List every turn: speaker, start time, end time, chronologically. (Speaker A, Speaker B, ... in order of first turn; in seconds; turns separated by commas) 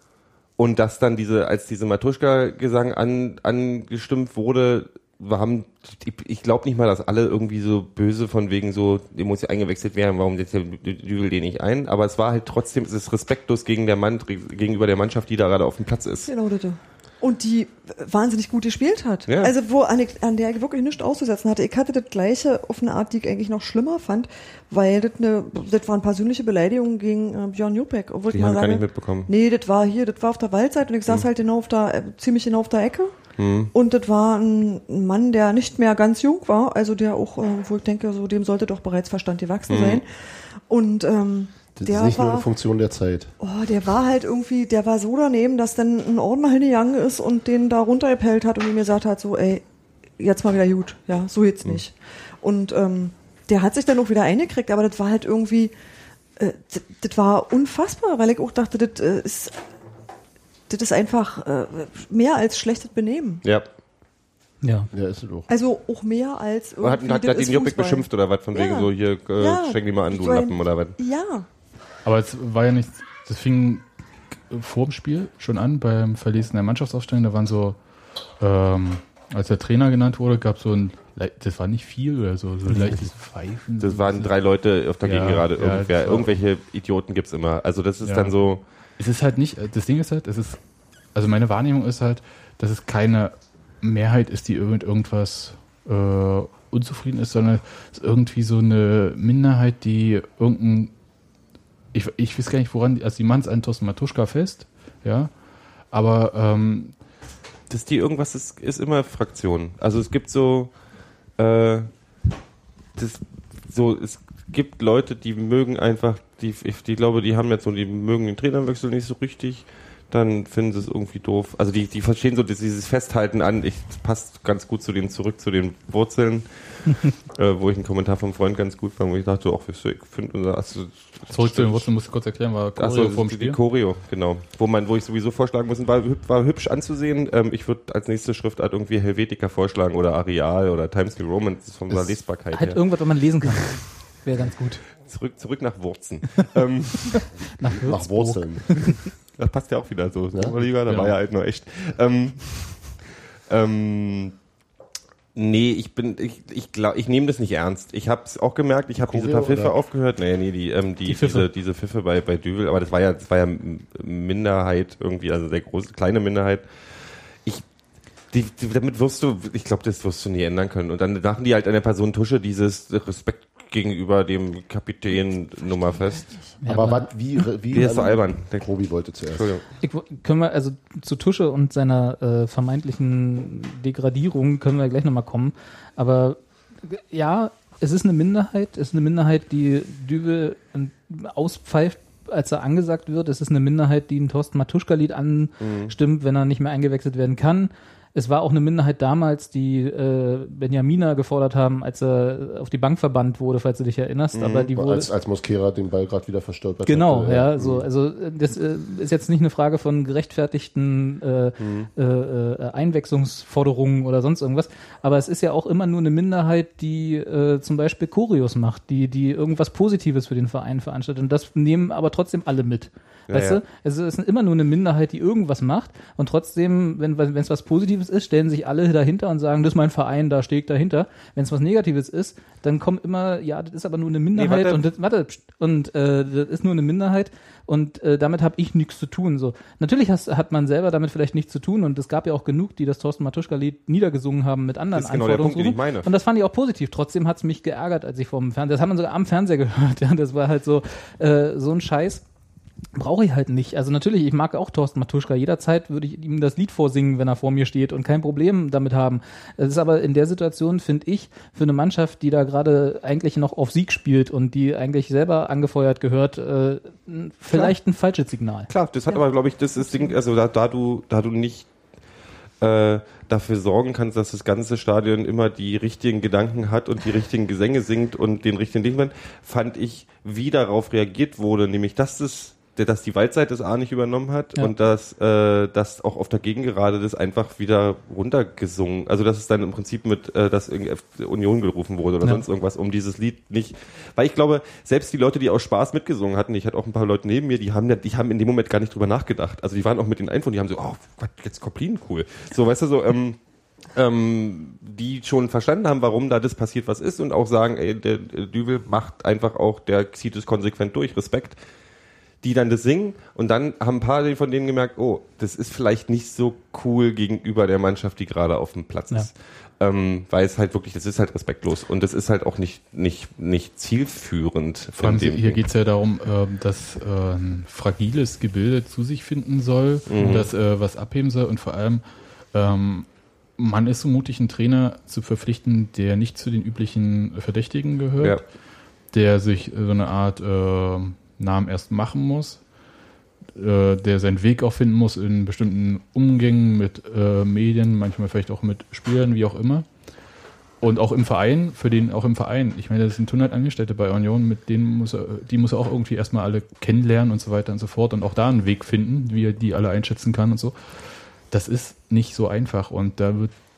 Speaker A: 0.6-16.3, Speaker B: 16.2-33.1, Speaker A: 19.3-19.5, Speaker A: 28.3-29.3, Speaker A: 33.4-33.7, Speaker B: 33.7-42.5, Speaker A: 39.7-40.0, Speaker C: 41.8-43.3, Speaker B: 43.4-55.7, Speaker B: 56.4-59.6, Speaker B: 60.7-63.4, Speaker D: 64.6-64.9, Speaker C: 64.9-65.5, Speaker B: 65.5-71.5, Speaker A: 66.8-71.0, Speaker E: 72.0-86.3, Speaker A: 83.8-88.6, Speaker E: 88.0-100.9, Speaker E: 101.9-107.0, Speaker A: 107.7-110.8, Speaker A: 111.3-111.9, Speaker A: 112.9-131.9, Speaker E: 131.3-133.6, Speaker A: 132.8-142.9, Speaker D: 142.4-144.8, Speaker A: 145.0-147.3, Speaker D: 147.6-148.7, Speaker C: 147.8-149.0, Speaker A: 149.3-154.3, Speaker E: 150.9-151.1, Speaker A: 155.3-167.6, Speaker C: 159.1-159.7, Speaker D: 161.1-161.5, Speaker A: 168.3-176.4, Speaker D: 176.6-177.1, Speaker C: 176.7-179.5, Speaker A: 177.7-179.6, Speaker D: 179.8-205.1, Speaker A: 195.6-195.9, Speaker A: 204.3-204.7, Speaker C: 204.5-207.9, Speaker D: 206.8-252.2, Speaker A: 211.6-211.9, Speaker A: 223.3-223.6, Speaker A: 234.3-234.8, Speaker A: 244.9-246.1, Speaker D: 252.9-268.7, Speaker A: 268.7-271.7, Speaker B: 269.8-270.1, Speaker A: 272.6-303.4, Speaker A: 303.9-311.6, Speaker A: 312.4-325.6, Speaker E: 324.9-342.7, Speaker A: 330.1-330.5, Speaker E: 343.5-350.1, Speaker E: 350.8-363.5